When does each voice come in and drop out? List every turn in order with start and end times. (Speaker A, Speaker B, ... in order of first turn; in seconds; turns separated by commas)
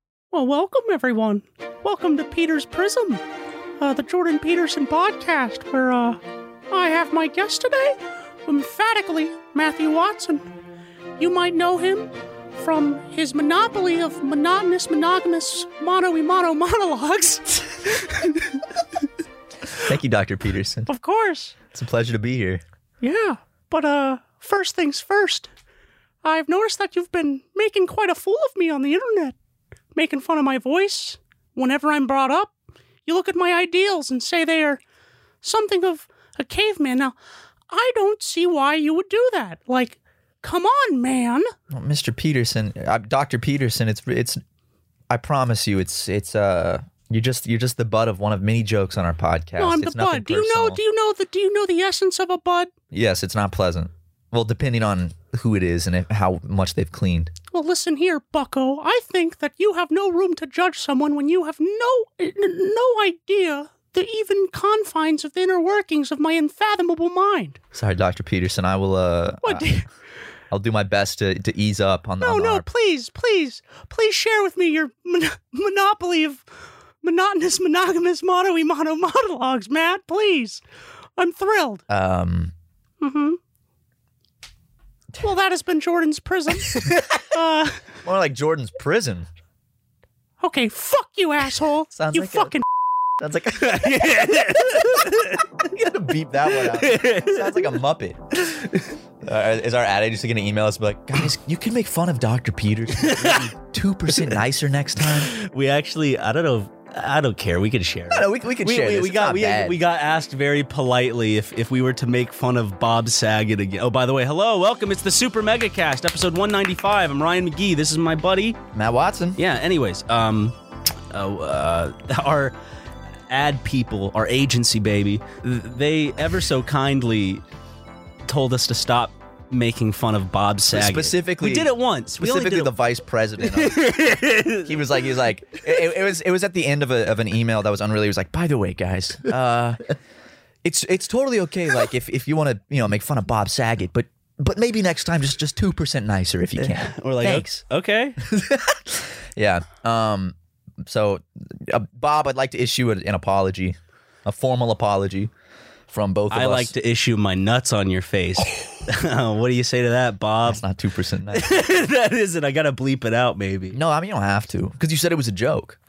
Speaker A: 0.3-3.2, Speaker A: 3.8-10.4, Speaker A: 11.2-18.6, Speaker B: 19.7-20.9, Speaker A: 20.9-21.6, Speaker B: 21.7-22.6, Speaker A: 23.0-25.5, Speaker A: 26.2-29.3, Speaker A: 29.9-32.5, Speaker A: 33.0-34.8, Speaker A: 35.4-37.1, Speaker A: 37.7-41.5, Speaker B: 41.7-44.4, Speaker B: 45.1-50.8, Speaker A: 49.6-52.7, Speaker B: 52.9-57.3, Speaker A: 57.5-67.6, Speaker B: 67.7-69.7, Speaker A: 69.4-69.9, Speaker B: 70.5-72.7, Speaker A: 72.2-76.4, Speaker A: 77.0-80.6, Speaker A: 81.2-81.8, Speaker B: 81.9-82.5, Speaker A: 83.0-83.4, Speaker A: 85.2-87.8, Speaker B: 86.7-87.3, Speaker B: 88.0-89.3, Speaker A: 90.4-92.6, Speaker B: 91.9-92.5, Speaker B: 93.2-98.4, Speaker C: 93.6-95.5, Speaker C: 96.6-97.8, Speaker C: 98.5-98.8, Speaker B: 99.2-105.3, Speaker C: 103.0-103.5, Speaker C: 104.1-104.4, Speaker C: 105.0-118.6, Speaker B: 108.1-109.8, Speaker B: 118.7-119.4, Speaker C: 119.4-120.5, Speaker C: 121.1-122.5, Speaker C: 123.3-127.4, Speaker C: 128.3-132.7, Speaker B: 130.7-133.8, Speaker C: 133.4-134.9, Speaker B: 134.6-139.8, Speaker B: 140.6-147.5, Speaker C: 146.6-148.2, Speaker B: 148.2-155.3, Speaker B: 155.9-156.7, Speaker C: 156.3-160.6, Speaker B: 160.4-161.9, Speaker C: 161.3-163.8, Speaker B: 163.7-165.8